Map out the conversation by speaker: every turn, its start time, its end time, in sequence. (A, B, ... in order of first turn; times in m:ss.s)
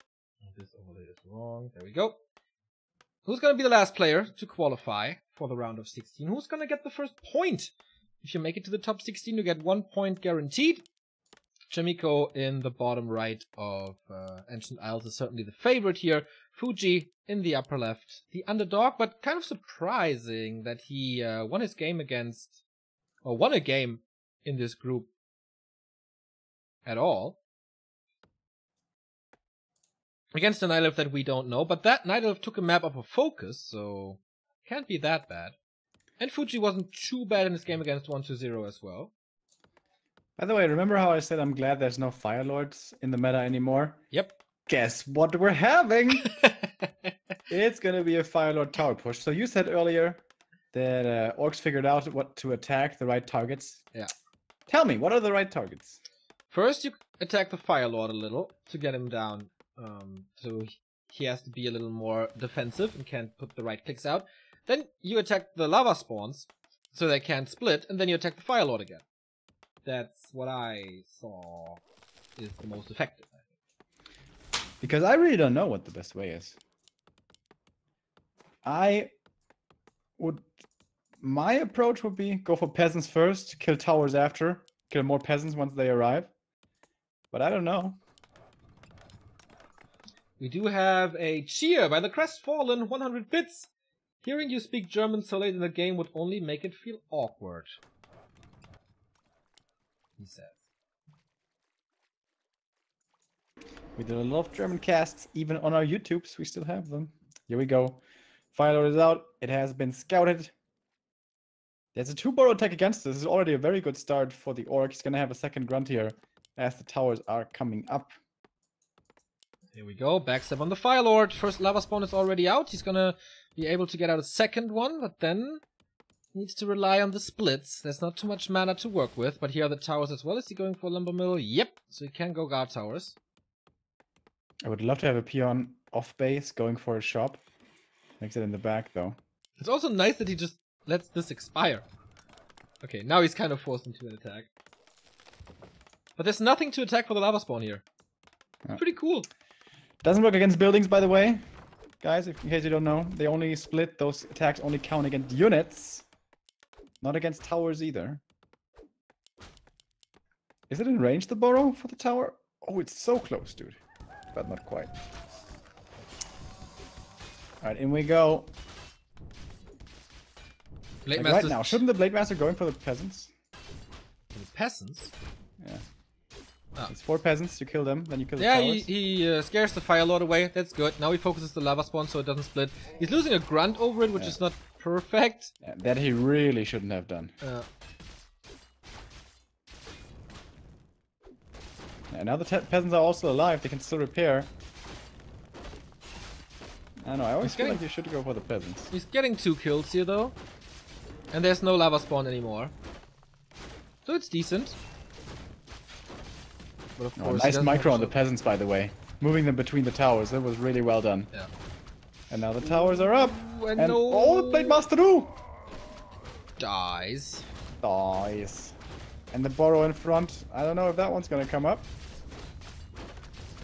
0:00.4-0:02.2 A
0:03.2-0:10.8 A
0:11.7-0:22.6 A
0:23.2-0:25.1 A
0:26.8-0:27.4 A
0:30.3-0:35.5 A
0:36.2-0:39.1 A
0:40.4-0:44.0 B
0:44.1-0:44.4 A
0:44.7-0:46.3 B
0:46.4-0:47.1 A
0:47.5-0:53.8 B
0:54.7-0:56.0 B
0:56.5-1:09.0 A
1:09.8-1:11.8 A
1:12.4-1:13.4 A
1:14.8-1:16.6 B
1:18.6-1:19.1 B
1:20.2-1:20.5 B
1:21.2-1:26.3 B
1:27.3-1:28.0 B
1:30.4-1:33.7 A
1:34.2-1:37.7 A
1:40.2-1:40.6 A
1:44.0-1:48.0 B
1:48.5-1:50.5 B
1:51.9-1:58.1 B
1:59.7-2:05.6 A
2:06.3-2:13.2 A
2:14.6-2:17.4 B
2:18.2-2:19.2 B
2:19.6-2:21.8 A
2:22.8-2:24.5 A
2:26.2-2:27.8 A
2:28.8-2:29.3 A
2:30.0-2:31.4 B
2:32.0-2:36.0 B
2:37.0-2:38.2 B
2:40.7-2:43.8 B
2:44.3-2:44.9 B
2:47.6-2:48.5 B
2:51.0-2:51.8 A
2:51.1-2:53.3 B
2:54.3-2:55.1 A
2:56.9-2:58.9 B
2:58.4-3:05.5 A
3:05.6-3:07.3 B
3:12.1-3:14.5 B
3:17.0-3:18.9 B
3:17.4-3:17.8 A
3:18.9-3:20.4 A
3:21.3-3:22.7 A
3:24.0-3:24.8 A
3:27.0-3:28.1 A
3:27.2-3:31.3 B
3:32.3-3:35.3 B
3:32.6-3:34.8 A
3:36.6-3:37.4 A
3:37.8-3:38.7 B
3:39.3-3:41.9 B